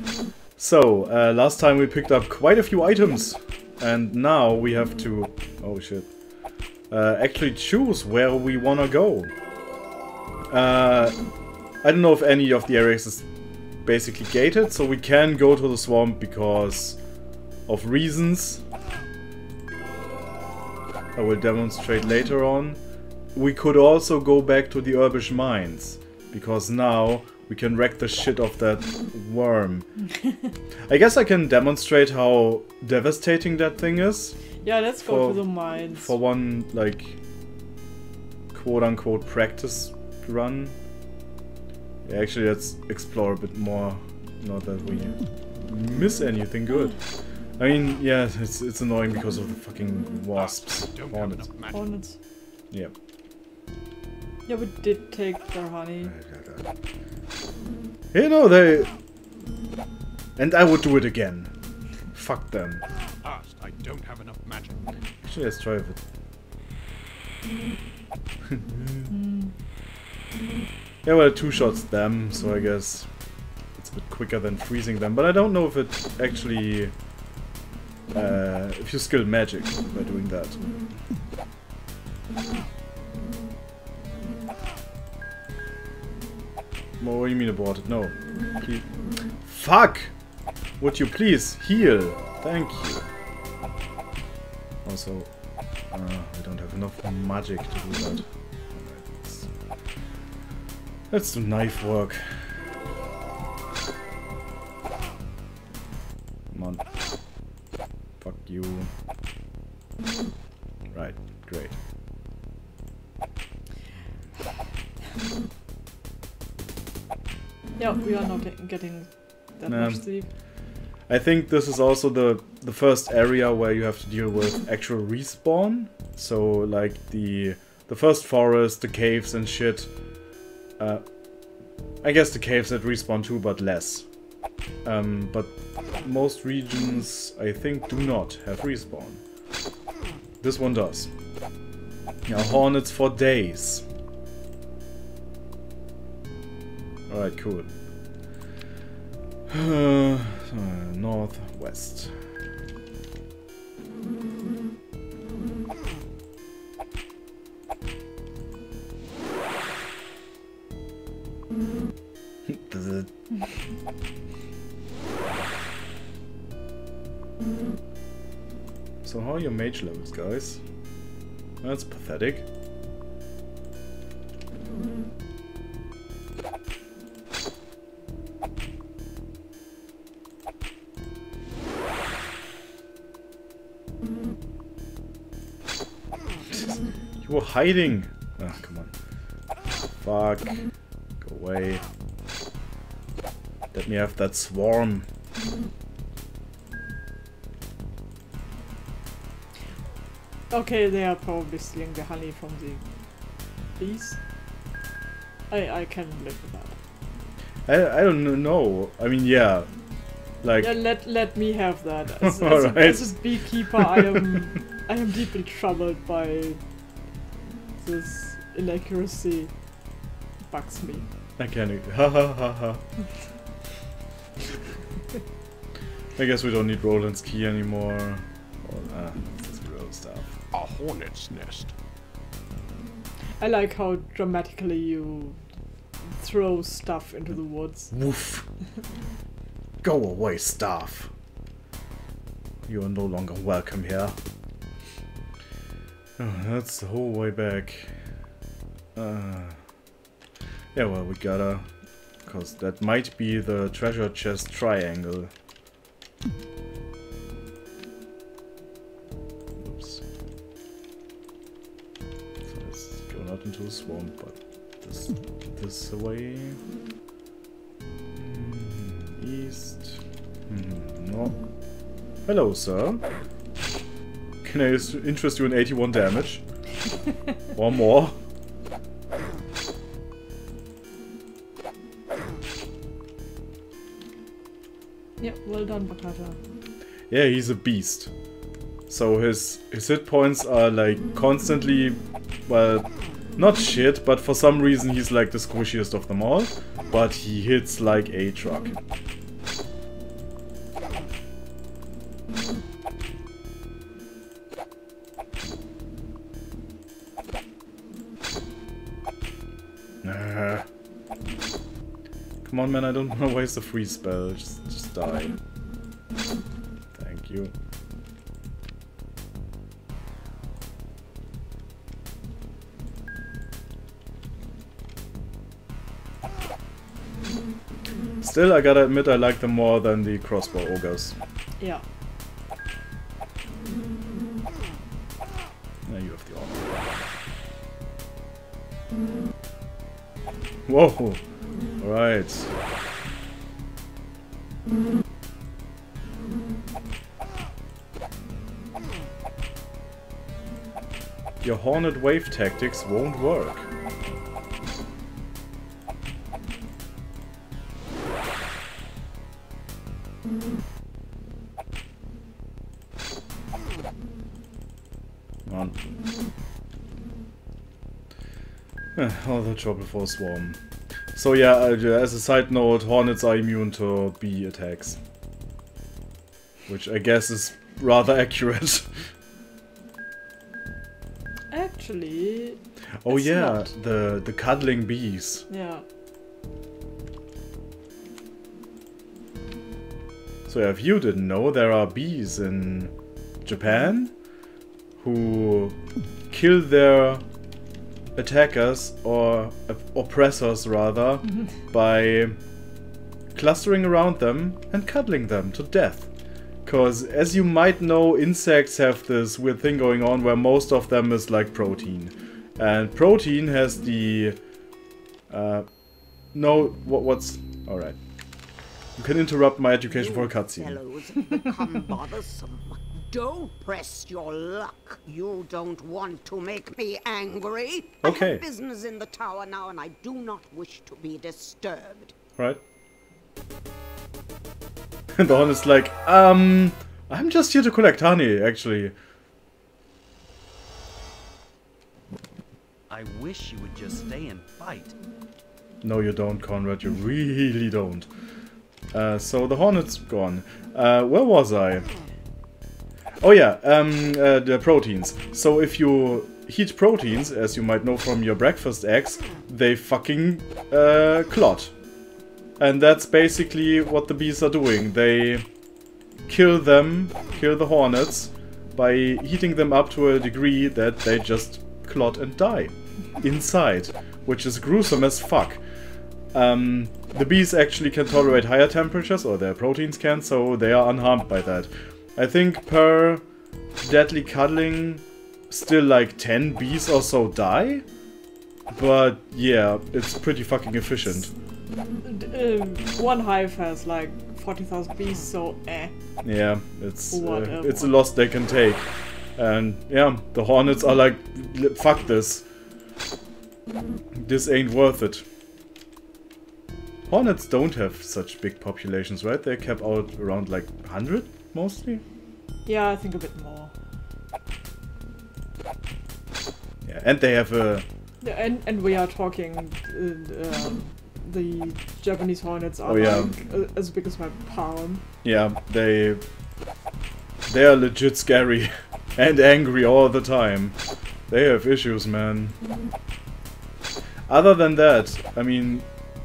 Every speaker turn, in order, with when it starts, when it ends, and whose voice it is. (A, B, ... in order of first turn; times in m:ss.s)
0:00.6-0:06.2 A
0:06.9-0:09.3 A
0:10.5-0:11.2 A
0:11.8-0:13.2 A
0:13.8-0:17.0 A
0:17.6-0:18.6 A
0:21.1-0:22.8 A
0:23.3-0:29.9 A
0:30.9-0:34.5 A
0:34.6-0:36.1 B
0:35.0-0:37.2 A
0:38.5-0:40.8 A
0:42.0-0:47.0 A
0:47.6-0:51.5 A
0:50.3-0:52.0 C
0:51.7-0:52.2 B
0:54.5-0:56.1 B
0:56.0-0:56.6 A
0:58.1-0:58.9 A
1:00.4-1:01.5 A
1:02.1-1:02.8 A
1:03.2-1:04.8 C
1:05.2-1:06.0 A
1:08.5-1:09.1 A
1:09.1-1:09.5 B
1:11.0-1:13.1 A
1:13.8-1:16.9 A
1:18.1-1:20.6 A
1:27.0-1:30.1 A
1:30.8-1:33.1 A
1:34.8-1:35.3 A
1:35.9-1:39.5 A
1:41.1-1:42.5 A
1:46.5-1:46.8 A
1:48.2-1:48.9 A
1:50.9-1:51.8 A
1:57.8-2:00.3 B
1:59.7-2:00.2 A
2:01.0-2:09.9 A
2:10.8-2:11.3 A
2:12.0-2:14.1 A
2:14.8-2:19.2 A
2:20.4-2:21.1 A
2:22.2-2:23.8 A
2:27.1-2:27.7 A
2:29.5-2:32.2 A
2:42.5-2:43.1 A
2:49.0-2:50.6 A
2:51.6-2:52.4 A
3:07.2-3:08.9 A
3:10.0-3:10.6 A
3:11.2-3:11.8 A
3:13.7-3:15.1 A
3:20.5-3:22.9 B
3:23.8-3:24.2 B
3:25.5-3:26.8 B
3:27.7-3:29.7 A
3:30.4-3:30.7 A
3:30.6-3:36.6 B
3:32.2-3:34.2 A
3:37.8-3:39.5 B
3:40.5-3:41.1 B
3:41.4-3:42.8 A
3:46.2-3:50.3 A
3:50.5-3:51.7 C
3:53.4-3:55.4 B
3:56.0-3:57.9 B
3:57.9-3:58.4 A
3:59.8-4:01.1 A
4:02.6-4:04.2 A
4:06.2-4:07.9 A
4:08.9-4:09.6 A
4:10.7-4:11.7 A
4:12.2-4:15.3 A
4:19.6-4:20.0 A
4:22.5-4:26.6 A
4:28.1-4:31.4 A
4:32.2-4:33.0 A
4:34.4-4:36.4 A
4:37.5-4:38.2 A
4:45.2-4:46.4 B
4:47.1-4:48.1 A
4:48.9-4:58.8 A
5:10.0-5:10.7 A
5:12.4-5:15.4 A
5:16.9-5:17.5 A
5:28.2-5:31.2 A
5:35.8-5:36.9 A
5:40.6-5:41.2 A
5:41.8-5:42.5 A
5:51.4-5:53.7 A
6:05.4-6:05.8 A
6:08.9-6:10.6 A
6:11.1-6:15.0 A
6:16.7-6:19.1 A
6:21.5-6:23.7 B
6:23.0-6:25.4 A
6:25.5-6:25.8 B
6:30.5-6:32.9 A
6:33.4-6:34.2 A
6:35.0-6:35.8 A
6:36.3-6:37.2 A
6:38.2-6:42.4 A
6:43.3-6:46.1 A
6:46.6-6:54.4 A
6:55.3-6:55.7 A
6:56.3-6:58.0 A
6:59.0-7:00.8 A
6:59.9-7:12.1 D
7:08.0-7:08.4 A
7:15.2-7:18.9 A
7:22.9-7:25.0 E
7:25.8-7:28.1 A
7:28.9-7:31.9 A
7:33.2-7:41.7 A
7:42.6-7:45.4 A
7:46.3-7:55.6 A
7:56.3-8:03.2 A
8:03.8-8:07.8 A
8:08.7-8:11.3 A
8:12.0-8:15.9 B
8:16.2-8:22.4 A
8:17.1-8:18.0 B
8:24.1-8:25.2 A
8:27.1-8:32.0 A
8:32.6-8:33.7 B
8:36.8-8:37.8 A
8:38.2-8:45.0 B
8:42.8-8:43.4 A
8:45.2-8:46.2 A
8:47.5-8:50.8 A
8:51.3-8:52.5 A
8:54.3-8:55.8 A